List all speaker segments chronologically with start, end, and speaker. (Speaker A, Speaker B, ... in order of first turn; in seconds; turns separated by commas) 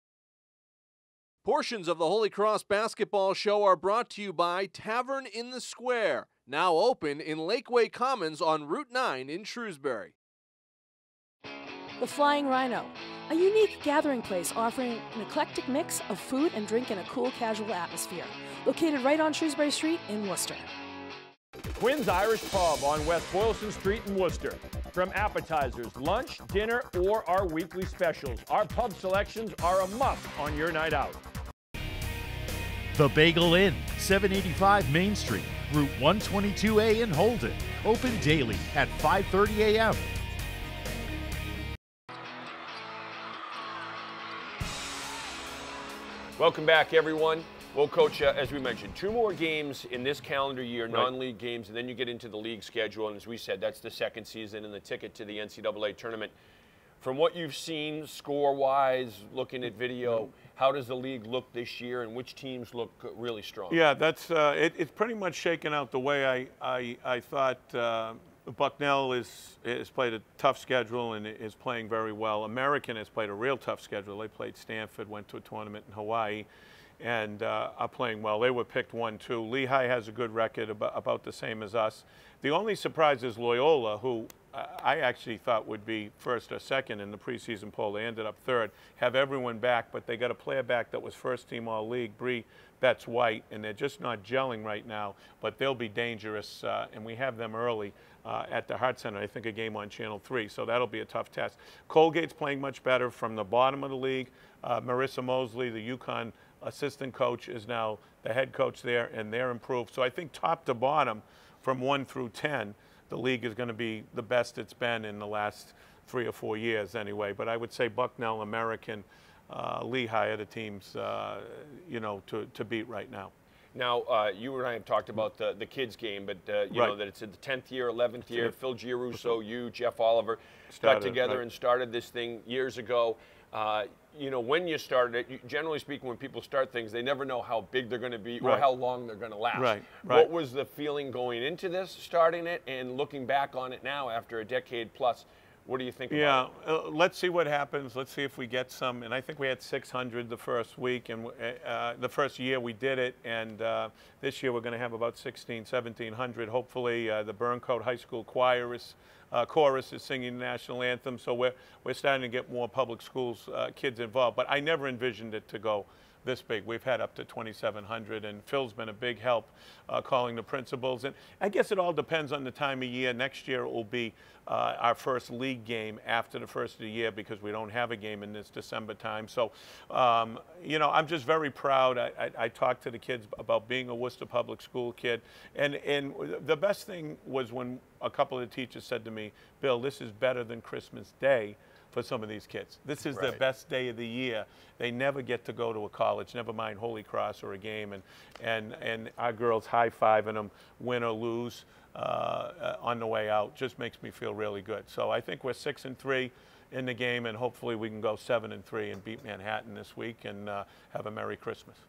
Speaker A: 1.4-10.2, Speaker B: 12.0-20.7, Speaker C: 21.7-31.2, Speaker D: 32.9-40.0, Speaker E: 46.4-56.3, Speaker F: 50.9-51.1, Speaker E: 57.0-63.8, Speaker F: 63.7-76.5, Speaker F: 77.0-123.3, Speaker E: 123.7-146.4, Speaker F: 130.7-131.4, Speaker F: 138.4-138.7, Speaker F: 139.5-140.3, Speaker F: 146.1-211.8, Speaker E: 193.1-193.4